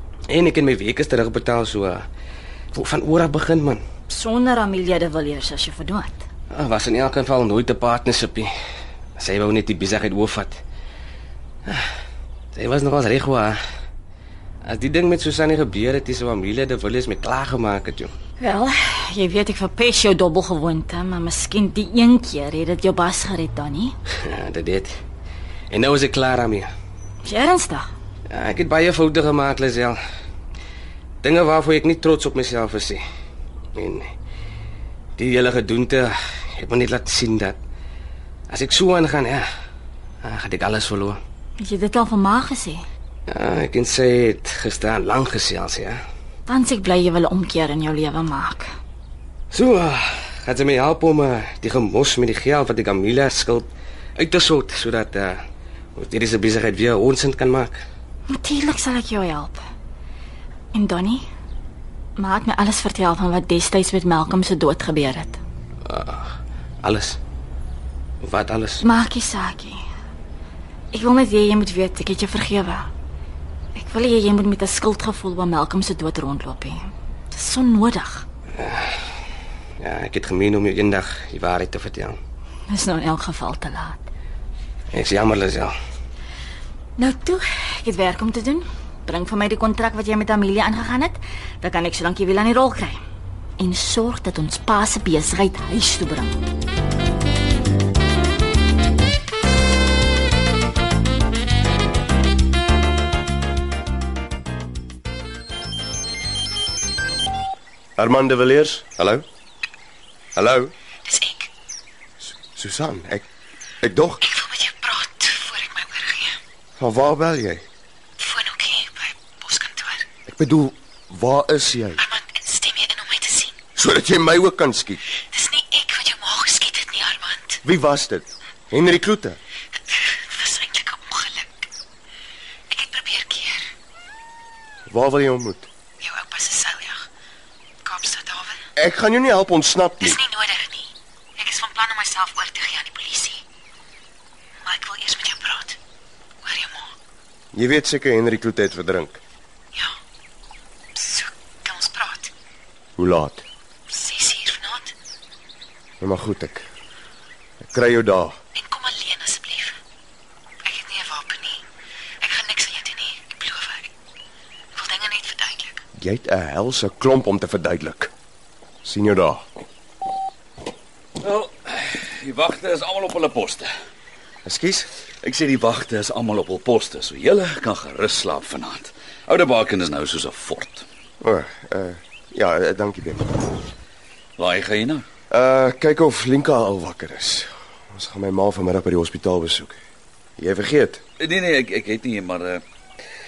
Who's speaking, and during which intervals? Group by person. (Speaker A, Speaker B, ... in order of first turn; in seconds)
Speaker A: 0.3-2.0, 2.7-3.8, 6.5-8.5, 9.2-10.6, 12.5-13.6, 14.6-18.1, 24.2-24.9, 25.7-26.7, 28.3-30.0, 31.2-33.0, 33.8-34.1, 35.2-37.6, 38.5-39.5, 40.2-41.2, 43.3-46.0, 49.5-55.4, 56.0-57.8, 65.8-66.3, 66.8-67.2, 68.2-68.8, 78.6-78.9, 79.8-82.2, 84.9-85.7
Speaker B: 4.1-6.2, 18.4-23.9, 27.2-27.9, 41.6-42.8, 46.5-48.6, 58.3-59.6, 60.7-61.2, 62.2-65.4, 68.8-69.8, 70.9-72.9, 73.8-76.8, 77.3-78.2, 82.7-84.0, 87.0-93.0, 93.6-96.4
Speaker C: 87.0-87.4, 111.1-111.5, 114.2-116.4, 118.2-120.1, 122.0-123.5, 125.3-127.6, 129.9-131.7, 132.7-133.7, 136.0-137.0, 137.8-138.6, 140.0-143.4, 144.6-145.8, 146.4-146.9, 150.9-152.3, 153.9-154.9, 158.5-159.8, 160.6-161.6, 162.2-163.9, 164.7-165.8
Speaker D: 108.0-109.2, 110.3-110.7, 112.5-113.2, 113.8-114.2, 116.8-117.6, 120.3-122.0, 123.7-125.0, 127.6-129.4, 134.9-135.7, 138.8-140.2, 147.5-149.2, 153.0-153.4, 156.0-156.7, 157.6-158.4, 166.0-168.1, 168.8-169.4, 174.4-174.9, 181.2-183.4, 185.3-189.8, 190.4-191.0
Speaker E: 171.2-173.7, 175.2-180.8, 184.4-185.0, 191.2-192.6